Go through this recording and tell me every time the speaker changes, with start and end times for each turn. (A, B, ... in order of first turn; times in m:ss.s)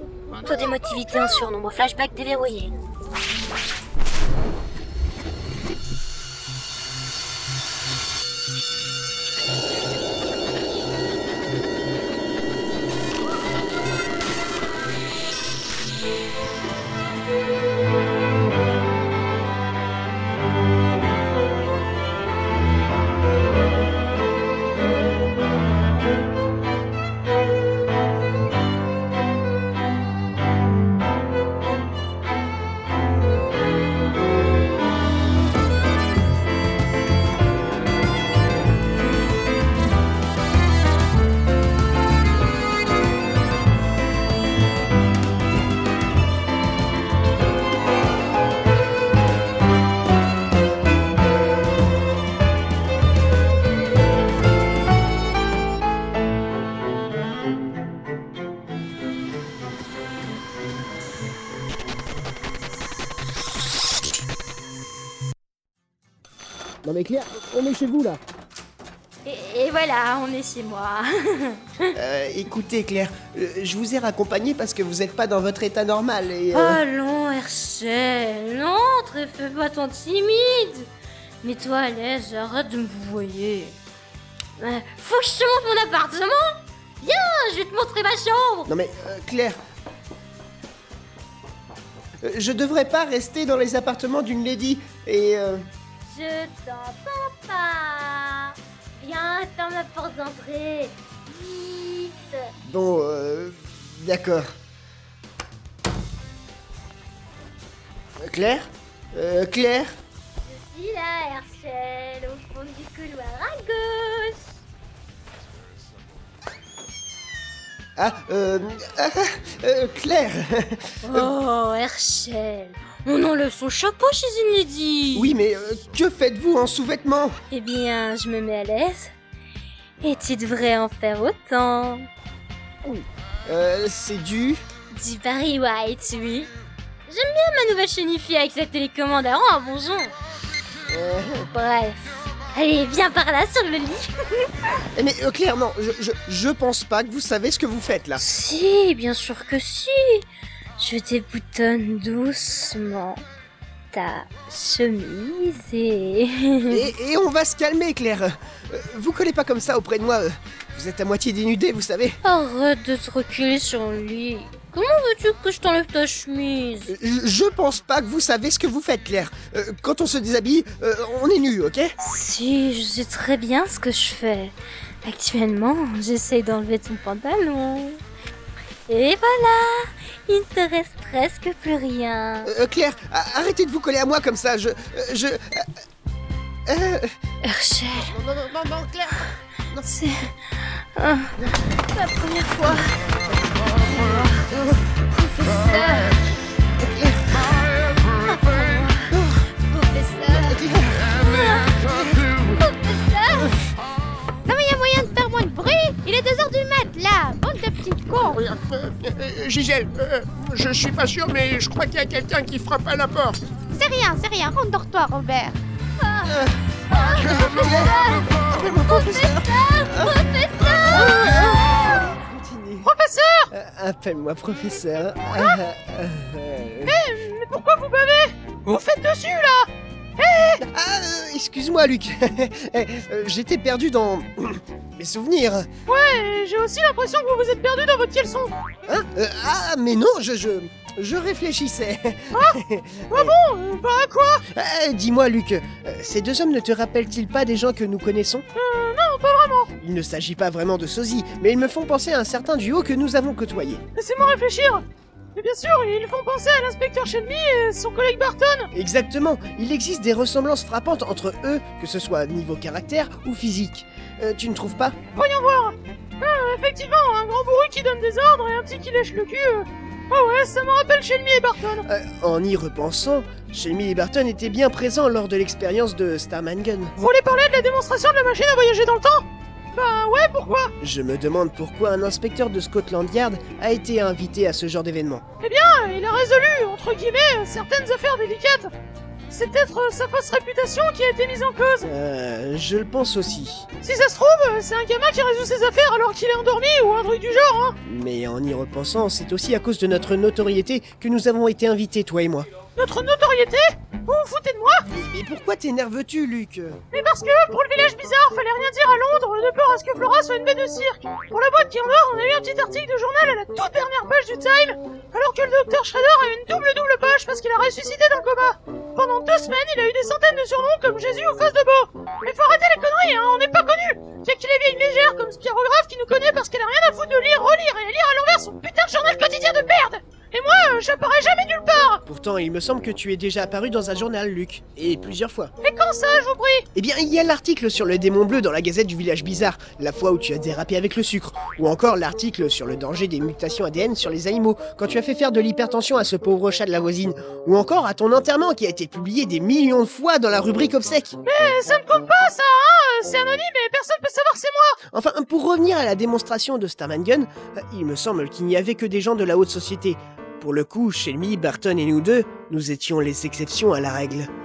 0:00.4-0:02.7 A
0:00.5-0:01.5 B
1:06.8-1:08.2 C
1:09.2-1:11.9 A
1:12.0-1:16.8 C
1:16.5-1:20.9 A
1:21.4-1:23.8 A
1:24.6-1:28.7 A
1:28.7-1:29.6 C
1:32.2-1:35.6 C
1:36.0-1:42.4 A
1:42.6-1:44.5 C
1:48.2-1:50.0 C
1:50.4-1:54.5 A
1:58.0-2:01.3 C
2:01.0-2:05.4 A
2:05.1-2:07.4 C
2:07.5-2:09.1 A
2:10.0-2:12.1 A
2:12.8-2:14.6 C
2:14.9-2:16.5 A
2:17.1-2:20.1 A
2:20.9-2:21.5 C
2:21.5-2:24.1 A
2:24.9-2:28.2 C
2:28.2-2:30.2 A
2:30.8-2:33.2 A
2:33.9-2:36.9 A
2:36.7-2:42.2 C
2:42.2-2:46.9 A
2:46.9-2:52.0 C
2:52.0-2:58.0 A
2:58.9-3:02.5 A
3:02.4-3:05.7 C
3:06.7-3:07.1 C
3:07.4-3:08.2 A
3:08.0-3:09.9 C
3:09.8-3:10.3 A
3:11.0-3:11.4 A
3:11.9-3:12.9 A
3:14.0-3:14.2 A
3:14.5-3:14.8 C
3:15.2-3:16.2 A
3:15.5-3:16.0 C
3:16.8-3:17.4 C
3:18.2-3:19.1 A
3:19.1-3:19.4 C
3:19.7-3:20.5 A
3:20.3-3:21.1 C
3:21.1-3:21.9 A
3:22.6-3:23.5 A
3:24.5-3:28.4 D
3:28.3-3:33.4 E
3:33.7-3:35.6 D
3:36.0-3:42.0 A
3:36.2-3:42.9 C
3:42.8-3:43.5 B
3:43.5-3:47.0 C
3:46.8-3:50.6 B
3:50.6-3:55.7 C
3:55.9-3:58.6 B
3:58.9-4:03.3 C
4:02.3-4:02.6 B
4:03.1-4:04.4 B
4:04.5-4:08.4 C
4:08.6-4:09.7 B
4:09.8-4:13.8 C
4:14.0-4:14.8 B
4:15.4-4:18.7 B
4:18.7-4:25.0 C
4:25.1-4:31.9 B
4:31.8-4:37.0 C
4:37.0-4:40.7 B
4:40.8-4:45.2 C
4:45.4-4:48.7 B
4:49.3-4:51.9 B
4:51.8-4:53.7 C
4:53.8-4:57.8 B
4:57.8-5:02.5 C
5:02.8-5:04.8 B
5:04.9-5:06.8 C
5:06.9-5:32.0 B
5:32.1-5:35.5 C
5:35.6-5:36.7 B
5:36.8-5:51.2 C
5:51.2-5:54.8 B
5:54.9-6:04.3 C